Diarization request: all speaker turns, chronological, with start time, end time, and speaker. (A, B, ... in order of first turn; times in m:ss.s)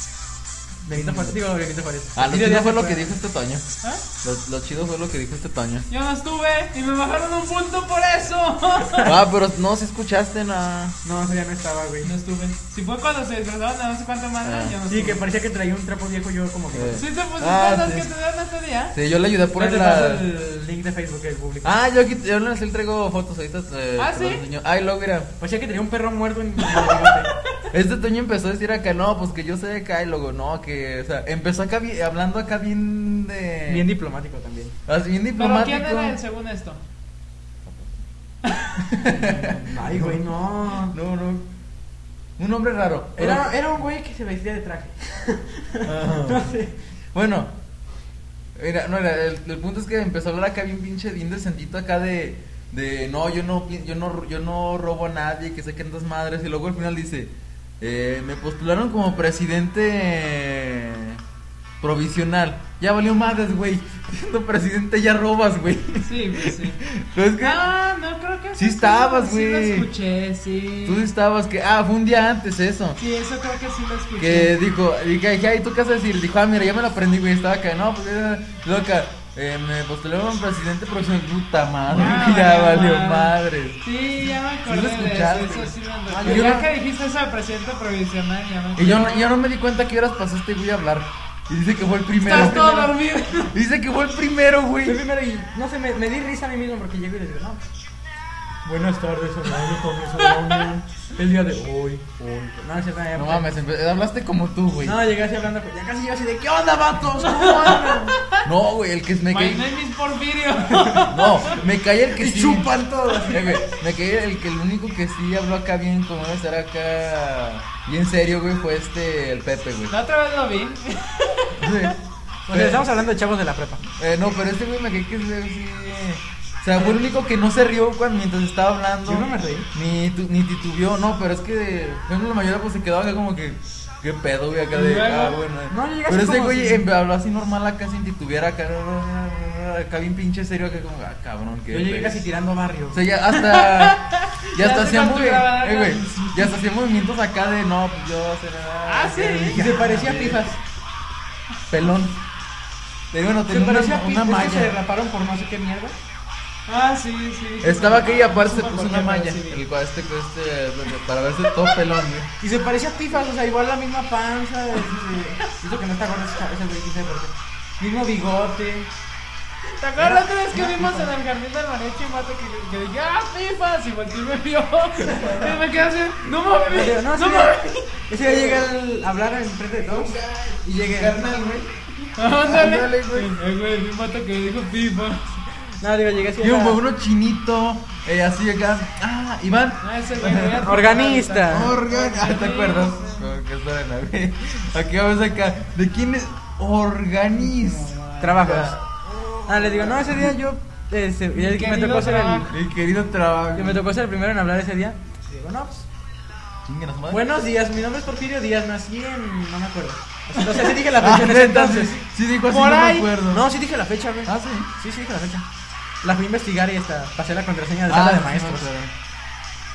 0:00.8-0:03.1 A
0:00.9-0:01.4 B
0:02.1-0:03.7 B
0:04.2-0:05.9 B
0:05.9-0:09.1 C
0:09.0-0:11.0 B
0:11.0-0:12.1 A
0:12.0-0:15.2 C
0:14.4-0:14.8 B
0:14.9-0:17.0 A
0:16.7-0:18.1 B
0:16.9-0:19.0 C
0:18.9-0:20.2 B
0:19.5-0:21.8 A
0:21.6-0:25.3 B
0:24.0-0:24.4 C
0:25.4-0:27.3 A
0:27.7-0:33.8 B
0:33.7-0:34.7 A
0:34.8-0:36.2 B
0:35.4-0:36.8 C
0:38.4-0:38.8 C
0:38.9-0:40.2 B
0:39.1-0:40.9 A
0:40.8-0:41.5 B
0:42.4-0:43.5 B
0:43.2-0:46.7 A
0:45.8-0:46.5 B
0:47.1-0:47.6 B
0:48.5-1:01.2 B
1:01.8-1:07.6 B
1:06.0-1:06.8 C
1:07.4-1:11.1 C
1:08.6-1:09.9 B
1:10.8-1:13.0 B
1:13.0-1:14.6 C
1:14.2-1:23.8 B
1:21.9-1:29.3 C
1:24.7-1:26.6 B
1:26.1-1:26.7 A
1:28.8-1:35.0 B
1:32.2-1:33.5 C
1:34.8-1:37.6 A
1:38.6-1:43.5 A
1:43.1-1:45.0 B
1:44.8-1:48.2 A
1:47.2-1:48.4 C
1:48.4-1:49.6 B
1:49.3-1:51.6 C
1:50.9-1:52.7 B
1:52.1-1:53.6 A
1:53.2-1:59.9 B
1:59.9-2:01.9 C
2:01.6-2:02.0 B
2:02.5-2:03.8 A
2:02.5-2:02.9 B
2:04.0-2:22.2 B
2:09.0-2:09.7 A
2:14.7-2:15.4 C
2:15.7-2:16.8 A
2:21.7-2:23.0 A
2:22.9-2:30.4 B
2:23.3-2:26.6 C
2:28.8-2:29.6 C
2:29.5-2:30.6 A
2:31.7-2:32.2 B
2:33.1-2:34.7 B
2:33.5-2:35.9 A
2:36.7-2:39.6 C
2:37.6-2:42.3 B
2:42.4-2:48.9 A
2:49.8-2:57.9 C
2:50.0-2:51.1 A
2:55.0-2:55.6 B
2:56.7-3:01.2 A
2:58.2-2:58.6 B
2:59.9-3:01.8 B
3:02.1-3:05.3 C
3:02.3-3:03.3 B
3:05.6-3:06.8 A
3:06.4-3:10.7 B
3:09.8-3:13.3 C
3:10.6-3:11.7 A
3:11.5-3:20.3 B
3:17.4-3:18.5 C
3:18.2-3:18.8 A
3:19.5-3:22.5 A
3:21.3-3:22.5 C
3:22.5-3:23.9 B
3:23.5-3:25.8 A
3:26.6-3:27.2 B
3:27.1-3:32.0 A
3:30.9-3:33.5 B
3:32.5-3:33.1 C
3:33.3-3:35.4 A
3:34.2-3:34.7 B
3:36.0-3:38.7 A
3:37.8-3:38.9 B